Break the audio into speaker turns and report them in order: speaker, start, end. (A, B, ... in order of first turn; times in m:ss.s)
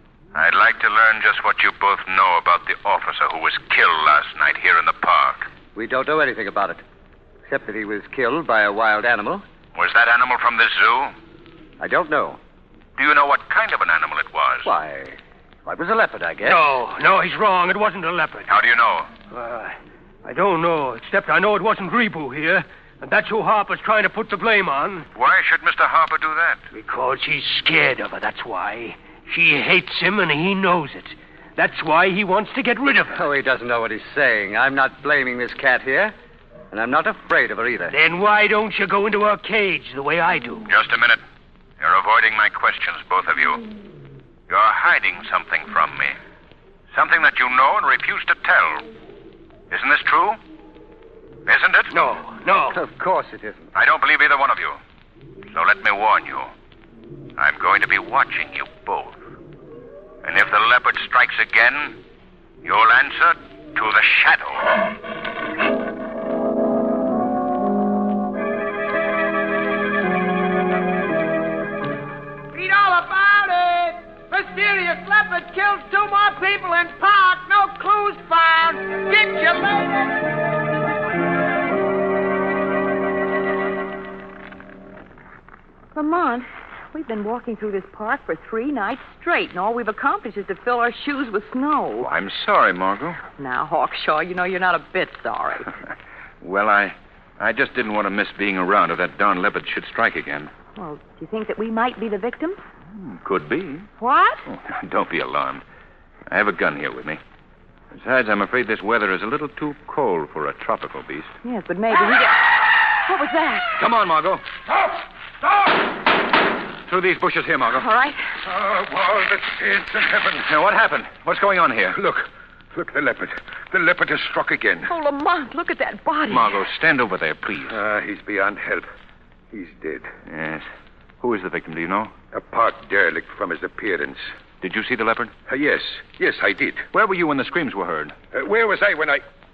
0:00.3-0:05.5 A
0:05.8-0:06.8 B
0:07.5-0:09.4 B
0:09.8-0:11.1 A
0:11.8-0:12.4 B
0:13.0-0:14.7 A
0:14.6-0:16.8 B
0:16.4-0:18.5 C
0:18.5-0:19.1 A
0:19.3-0:25.1 C
0:25.1-0:26.6 A
0:26.7-0:33.2 C
0:33.1-0:36.1 B
0:36.7-0:38.0 B
0:37.9-0:40.7 C
0:40.7-0:41.2 A
0:41.8-0:43.6 A
0:44.5-0:46.2 A
0:46.9-0:48.9 A
0:49.7-0:50.4 A
0:51.4-0:52.0 A
0:51.9-0:52.8 C
0:52.7-0:53.7 B
0:53.7-0:54.8 A
0:55.5-0:56.5 A
0:57.4-0:59.2 A
1:00.2-1:02.0 A
1:02.6-1:04.8 A
1:12.5-1:20.3 D
1:26.0-1:32.1 E
1:32.0-1:33.2 A
1:33.4-1:35.7 E
1:36.4-1:40.5 A
1:40.8-1:42.6 E
1:42.9-1:43.9 A
1:44.0-1:44.4 E
1:44.5-1:45.6 A
1:46.3-1:47.2 A
1:47.9-1:51.4 A
1:51.4-1:53.8 E
1:53.8-1:54.4 A
1:56.9-1:57.9 A
1:57.7-1:58.3 E
1:58.4-2:00.5 F
2:00.4-2:02.0 A
2:01.9-2:04.9 F
2:04.9-2:06.6 E
2:06.3-2:07.8 A
2:07.7-2:08.9 F
2:09.5-2:10.1 F
2:10.2-2:10.6 A
2:11.2-2:12.1 A
2:12.3-2:14.3 F
2:14.6-2:15.3 A
2:15.5-2:16.9 F
2:16.9-2:18.2 A
2:18.3-2:19.2 F